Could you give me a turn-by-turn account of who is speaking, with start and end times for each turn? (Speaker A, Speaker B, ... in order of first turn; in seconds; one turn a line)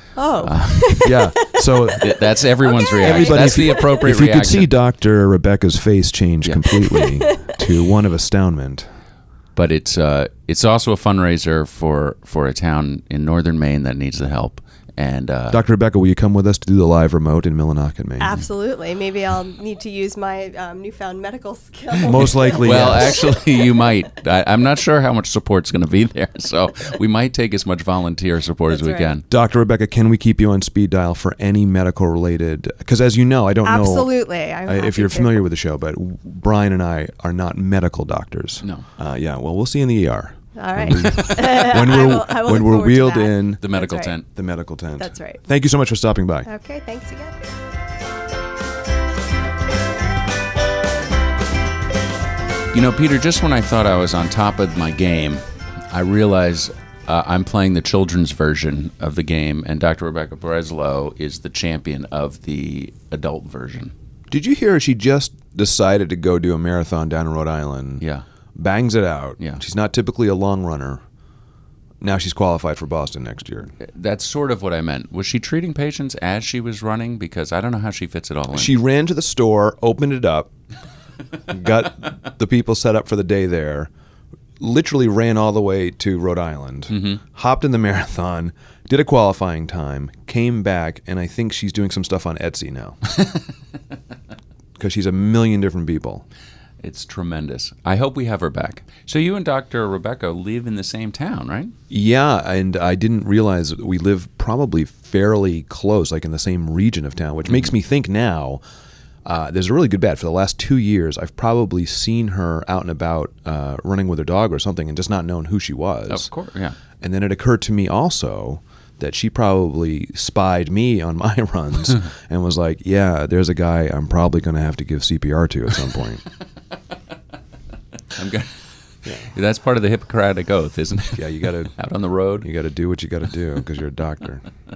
Speaker A: 0.1-4.0
Speaker B: 0.4-1.2
Speaker C: 1.0-2.2
Speaker B: 2.0-4.7
Speaker C: 3.0-8.9
Speaker B: 6.4-7.1
Speaker A: 7.2-7.6
Speaker B: 9.6-15.6
Speaker C: 15.5-18.3
Speaker A: 18.2-23.4
Speaker C: 22.0-23.2
Speaker B: 22.1-29.2
Speaker A: 28.7-29.2
Speaker C: 29.3-34.1
Speaker A: 33.6-35.4
Speaker C: 34.6-43.6
Speaker A: 40.5-44.1
Speaker B: 43.6-44.2
Speaker C: 44.3-46.5
Speaker A: 45.0-45.4
Speaker A: 46.4-47.5
Speaker B: 52.7-55.4
Speaker B: 55.9-63.9
Speaker C: 64.3-68.0
Speaker C: 68.5-71.0
Speaker C: 72.0-73.7
Speaker B: 73.8-78.7
Speaker C: 78.5-80.5
Speaker C: 81.5-83.9
Speaker C: 84.6-93.0
Speaker B: 86.9-87.2
Speaker C: 94.8-96.2
Speaker B: 96.8-101.7
Speaker C: 101.9-108.6
Speaker C: 109.2-116.3
Speaker B: 116.1-116.8
Speaker C: 117.0-126.2
Speaker B: 128.1-132.5
Speaker C: 129.0-129.3
Speaker C: 131.1-131.7
Speaker C: 132.4-134.4